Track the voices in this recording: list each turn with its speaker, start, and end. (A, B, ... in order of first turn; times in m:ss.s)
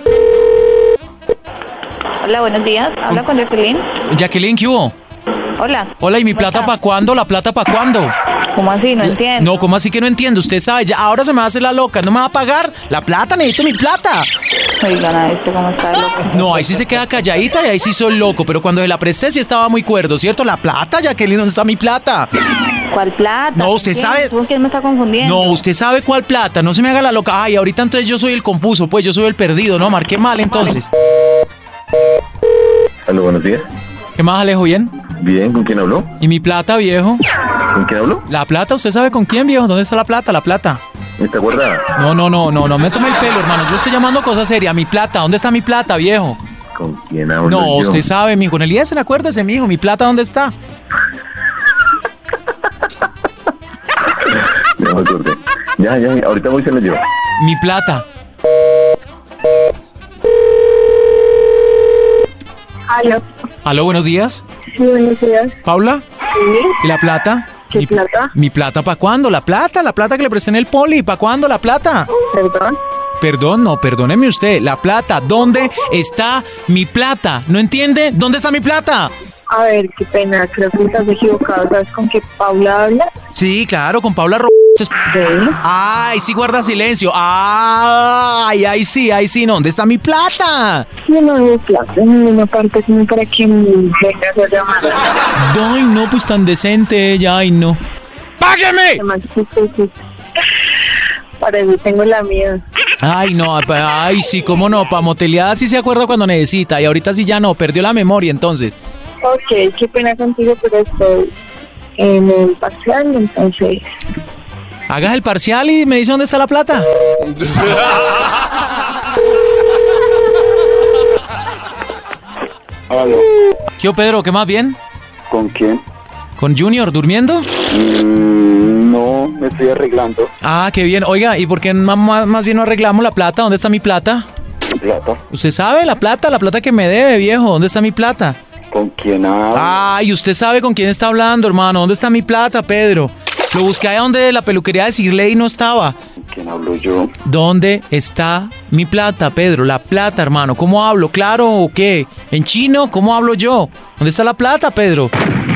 0:02.2-0:03.9 A
0:04.0-0:04.9 B
0:05.6-0:06.7 A
0:06.0-0:08.1 B
0:08.5-0:09.5 A
0:09.0-0:14.3 B
0:14.8-0:16.4 A
0:16.3-0:22.3 B
0:22.9-0:25.6 A
0:23.6-0:24.3 B
0:25.2-0:30.9 B
0:33.0-0:33.7 C
0:34.2-0:35.0 B
0:35.1-0:36.1 C
0:36.2-0:37.2 B
0:37.7-0:38.2 C
0:38.3-0:40.8 B
0:41.2-0:41.9 C
0:42.0-0:46.4 B
0:46.8-0:48.1 C
0:47.5-0:50.5 B
0:54.3-0:57.0 C
0:57.4-0:58.0 B
1:02.9-1:03.2 D
1:03.6-1:04.4 B
1:04.7-1:05.6 D
1:05.7-1:06.0 B
1:06.4-1:06.8 D
1:06.8-1:12.1 B
1:07.7-1:08.3 D
1:12.2-1:12.8 D
1:13.2-1:19.1 B
1:19.5-1:23.1 D
1:23.3-1:25.0 B
1:25.0-1:25.6 D
1:25.6-1:30.9 B
1:31.1-1:35.0 D
1:35.4-1:37.8 B
1:38.4-1:39.0 B
1:39.0-1:39.9 D
1:41.4-1:42.6 D
1:43.0-1:48.8 B
1:49.2-1:51.3 D
1:52.0-1:53.8 D
1:54.9-1:56.9 B
2:02.9-2:03.3 E
2:03.8-2:04.8 B
2:05.3-2:05.8 E
2:06.4-2:07.5 B
2:07.7-2:10.3 E
2:10.4-2:14.2 B
2:14.8-2:15.2 E
2:15.3-2:18.4 B
2:18.7-2:19.8 E
2:19.6-2:26.0 B
2:26.3-2:27.1 E
2:27.2-2:35.1 B